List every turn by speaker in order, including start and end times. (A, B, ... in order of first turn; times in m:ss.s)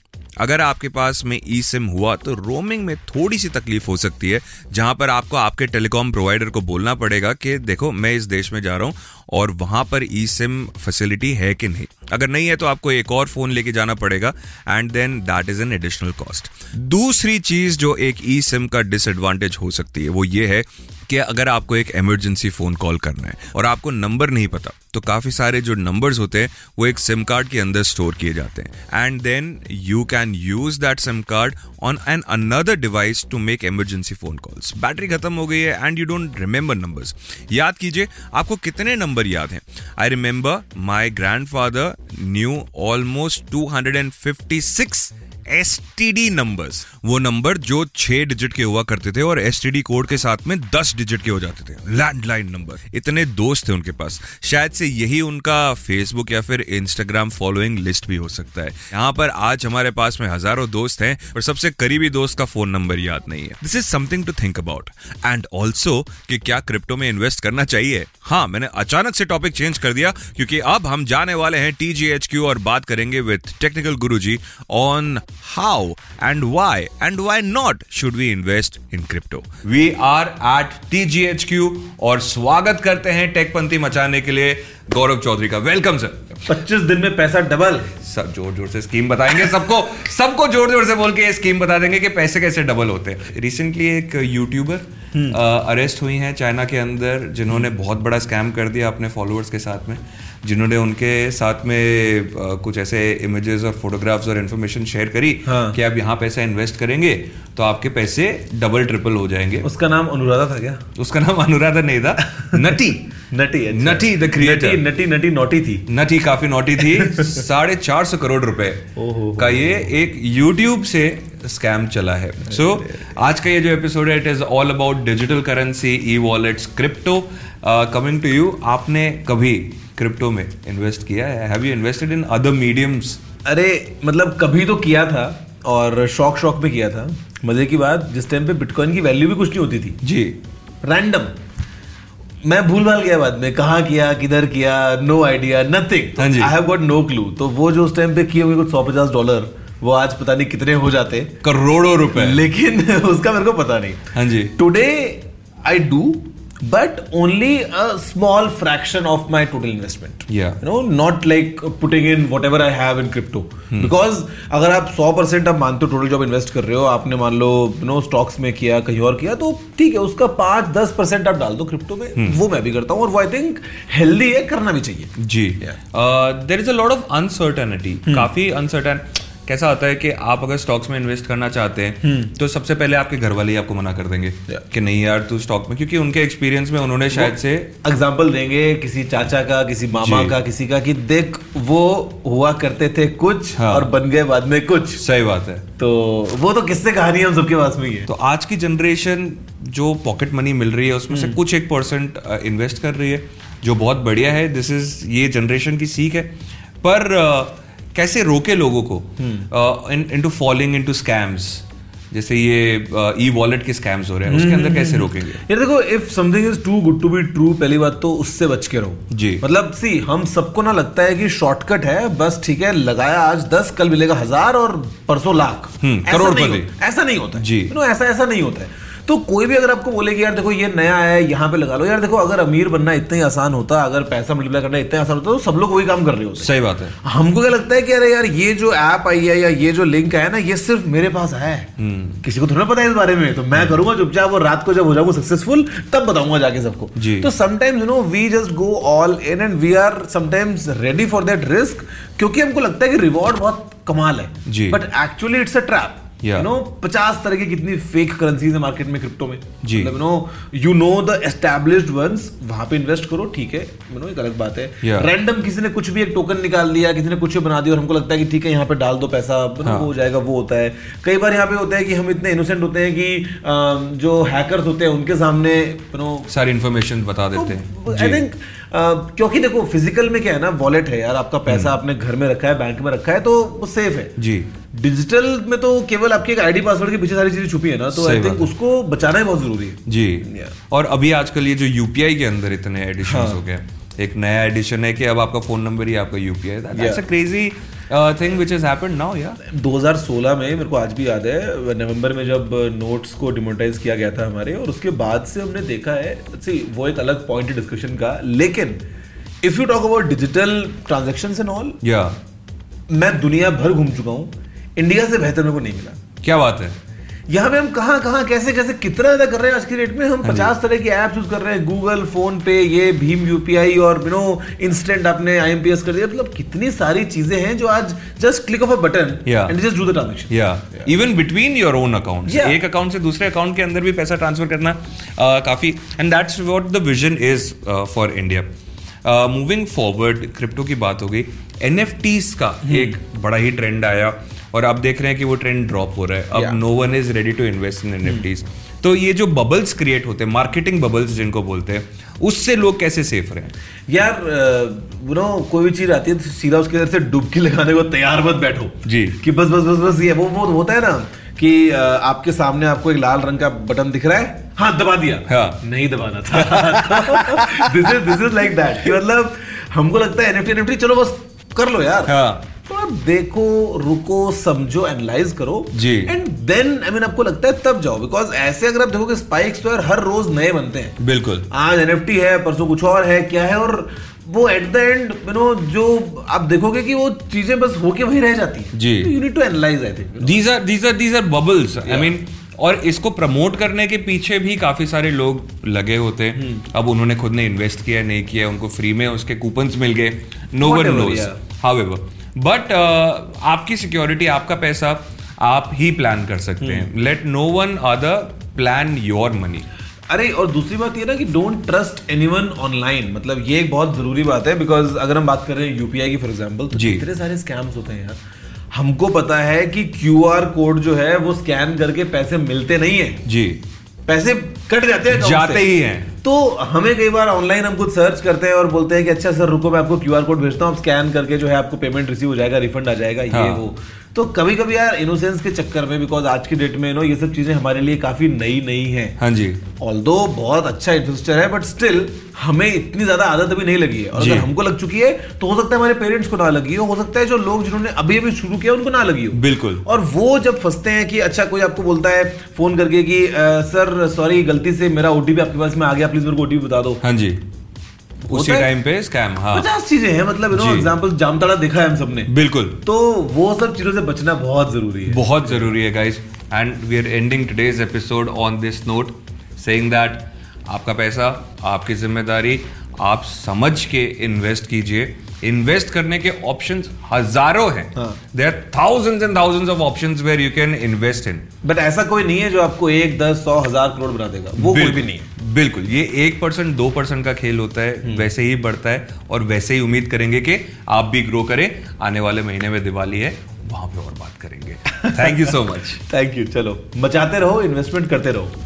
0:00.4-1:26.4 A
1:26.4-1:27.9 B
1:28.0-1:49.7 A
1:35.1-1:35.4 B
1:45.4-1:45.8 B
1:49.6-1:50.8 B
1:51.0-1:53.1 A
1:52.3-1:52.6 B
1:53.3-1:55.9 B
1:53.7-1:54.8 A
1:55.9-2:13.2 A
1:56.8-1:57.4 B
1:59.0-1:59.9 B
2:13.4-2:20.0 B
2:20.0-2:20.4 A
2:20.8-2:21.3 B
2:22.4-2:31.4 B
2:26.2-2:26.5 A
2:31.4-2:32.5 A
2:32.1-2:55.7 B
2:34.1-2:34.5 A
2:40.3-2:40.6 A
2:55.2-3:07.7 A
3:02.0-3:02.3 B
3:07.1-3:15.0 B
3:10.0-3:10.3 A
3:13.6-3:13.9 A
3:15.0-3:15.6 A
3:15.8-3:18.1 B
3:18.1-3:35.4 A
3:21.1-3:21.4 B
3:29.2-3:29.5 B
3:34.2-4:01.7 B
3:39.1-3:39.4 A
3:45.8-3:46.7 A
3:47.3-3:47.7 A
3:56.4-3:56.9 A
4:01.8-4:02.2 A
4:02.2-4:36.3 B
4:03.5-4:03.8 A
4:07.0-4:07.3 A
4:14.4-4:14.8 A
4:16.2-4:16.5 A
4:19.6-4:19.9 A
4:24.8-4:25.1 A
4:29.6-4:29.9 A
4:36.3-4:38.2 A
4:37.3-4:44.1 B
4:41.5-4:41.7 A
4:44.2-4:44.5 A
4:44.7-4:50.5 B
4:47.9-4:48.5 A
4:49.8-4:59.4 A
4:53.0-4:53.4 B
4:56.7-4:57.0 B
4:59.4-5:08.8 B
5:09.4-5:11.8 B
5:11.8-5:12.2 A
5:12.9-5:16.0 B
5:16.2-5:16.8 A
5:17.3-5:30.9 B
5:20.2-5:20.5 A
5:29.2-5:29.6 A
5:30.3-5:38.5 A
5:32.3-5:32.6 B
5:39.0-5:53.5 A
5:42.6-5:43.0 B
5:46.3-5:46.6 B
5:53.9-6:21.0 B
5:58.8-5:59.2 A
6:05.3-6:05.6 A
6:06.3-6:08.2 A
6:12.0-6:12.4 A
6:15.7-6:16.1 A
6:21.0-6:21.5 A
6:21.5-6:30.4 B
6:28.7-6:29.1 A
6:30.2-6:49.6 A
6:31.8-6:32.1 B
6:36.4-6:36.6 B
6:40.6-6:41.4 B
6:46.6-6:46.9 B
6:50.1-6:58.2 B
6:56.7-6:57.0 A
6:58.7-7:03.2 B
7:03.2-7:03.6 A
7:04.0-7:19.2 B
7:05.1-7:06.1 A
7:13.3-7:13.7 A
7:19.2-7:19.6 A
7:19.8-7:37.0 B
7:24.1-7:24.5 A
7:29.3-7:29.8 A
7:37.0-7:37.4 A
7:38.2-7:38.7 B
7:38.3-7:39.7 A
7:39.5-7:42.3 B
7:40.5-7:40.9 A
7:42.2-7:42.8 A
7:42.8-7:45.7 B
7:45.1-8:01.4 A
7:57.9-7:58.2 B
8:01.6-8:05.3 B
8:04.6-8:16.0 A
8:08.0-8:08.3 B
8:15.0-8:18.5 B